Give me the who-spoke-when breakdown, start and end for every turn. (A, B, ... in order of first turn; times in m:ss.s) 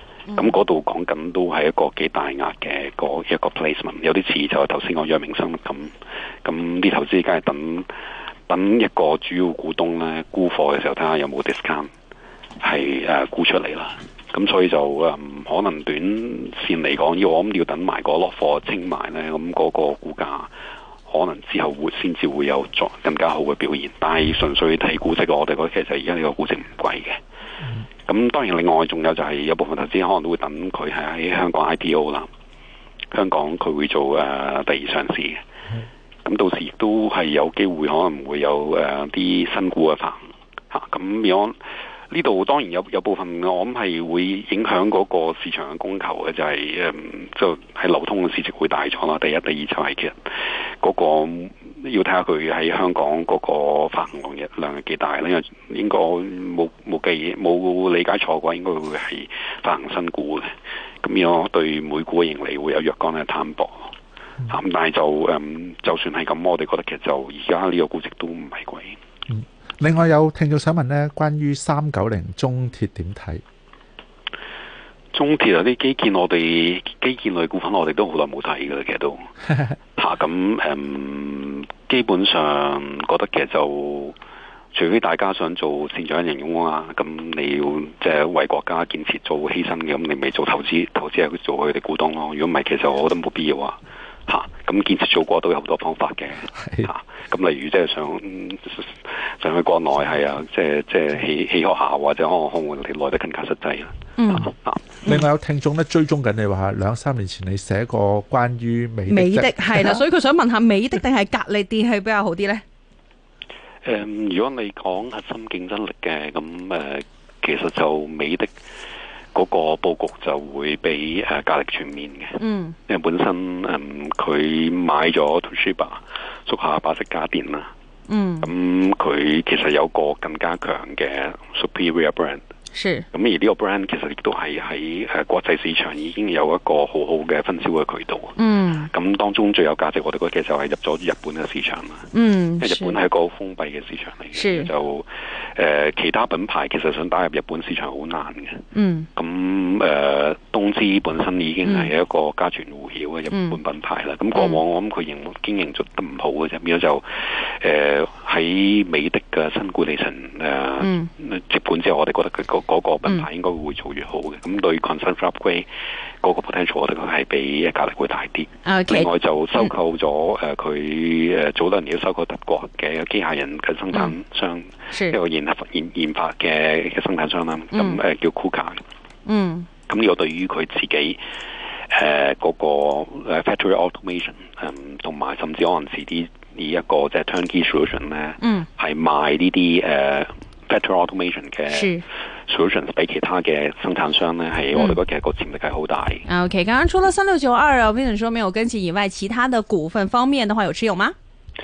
0:00.3-0:00.6 A
0:00.4-0:07.9 B
0:08.5-0:11.9 B
0:12.6-0:20.5 B
0:21.1-0:27.2 B
0:28.0-0:32.3 B
0:33.1-0:35.4 B
0:36.2-0:41.6 B
0:42.1-1:03.9 B
1:04.5-1:09.0 B
1:09.3-1:13.4 C
1:15.1-1:19.3 B
1:20.0-1:24.2 B
1:24.7-1:44.9 B
1:36.5-1:36.9 C
1:44.2-1:44.5 A
1:45.0-1:50.0 C
1:49.1-1:52.6 A
1:53.8-1:58.5 B
1:59.3-2:07.7 B
2:02.4-2:02.8 A
2:08.1-2:08.5 A
2:08.4-2:12.4 B
2:12.7-2:13.1 A
2:13.1-2:22.1 B
2:18.4-2:18.9 A
2:22.1-2:23.0 A
2:22.6-2:45.7 B
2:24.3-2:24.7 A
2:28.7-2:29.1 A
2:31.6-2:31.9 A
2:33.3-2:33.6 A
2:34.4-2:34.6 A
2:40.8-2:41.1 A
2:46.2-2:58.8 B
2:48.6-2:49.1 A
2:57.7-2:58.0 A
2:59.3-2:59.7 A
2:59.9-3:01.2 B
3:01.9-3:16.3 B
3:08.4-3:08.7 A
3:11.7-3:12.0 A
3:16.3-3:21.2 A